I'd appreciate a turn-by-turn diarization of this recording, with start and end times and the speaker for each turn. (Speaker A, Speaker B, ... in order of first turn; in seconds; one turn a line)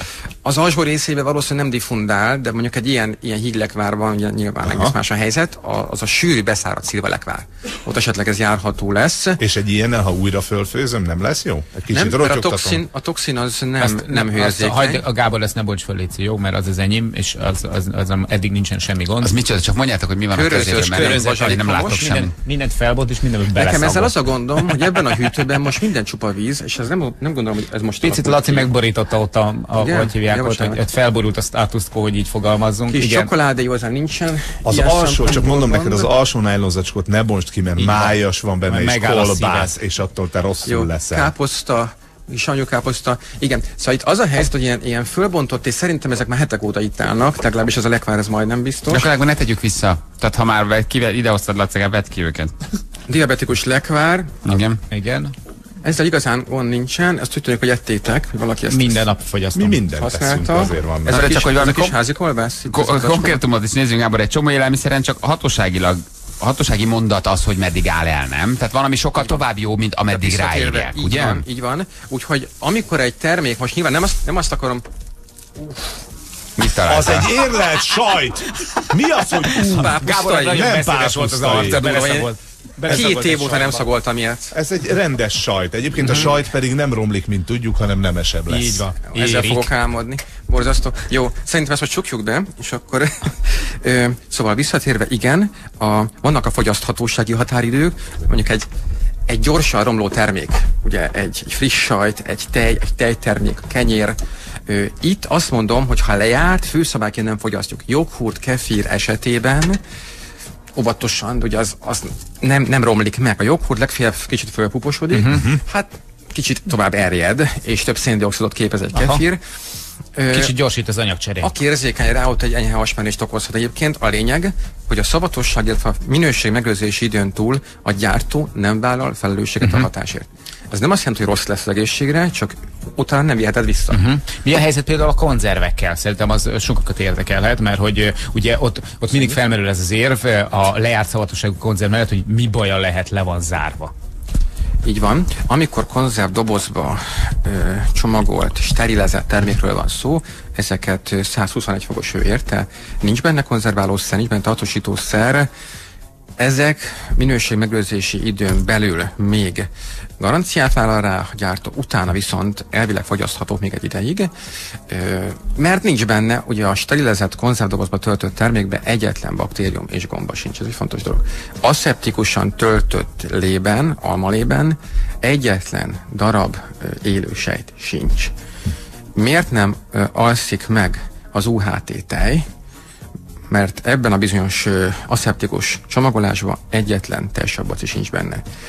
Speaker A: 0.4-9.4
Speaker B: 4.7-5.0
Speaker B: 9.4-12.8
Speaker A: 11.9-15.1
Speaker C: 13.8-19.4
Speaker D: 19.2-22.3
Speaker A: 20.3-22.1
Speaker C: 20.5-24.2
Speaker A: 23.5-28.7
Speaker C: 28.0-33.3
Speaker A: 29.8-30.8
Speaker A: 32.9-36.1
Speaker B: 34.6-41.3
Speaker C: 37.8-39.8
Speaker A: 40.6-49.1
Speaker D: 48.9-52.5
Speaker A: 53.1-54.5
Speaker D: 54.5-54.8
Speaker C: 54.9-55.4
Speaker A: 55.8-59.1
Speaker C: 58.7-59.8
Speaker B: 59.5-61.2
Speaker A: 59.9-63.4
Speaker D: 61.1-62.0
Speaker D: 62.7-71.4
Speaker A: 70.1-74.8
Speaker D: 76.6-77.4
Speaker B: 76.8-81.8
Speaker A: 79.5-80.8
Speaker C: 80.0-83.8
Speaker A: 81.5-82.3
Speaker A: 82.8-84.6
Speaker B: 84.5-88.9
Speaker C: 88.5-89.7
Speaker A: 89.1-98.7
Speaker A: 99.3-109.8
Speaker A: 110.8-119.4
Speaker C: 115.1-115.5
Speaker C: 118.9-119.2
Speaker A: 120.2-120.5
Speaker C: 120.3-121.5
Speaker A: 121.4-134.0
Speaker C: 129.6-129.9
Speaker C: 133.9-143.9
Speaker A: 139.1-139.4
Speaker A: 144.8-155.5
Speaker A: 156.4-164.3
Speaker A: 164.9-178.3
Speaker A: 179.2-182.4
Speaker A: 183.5-188.4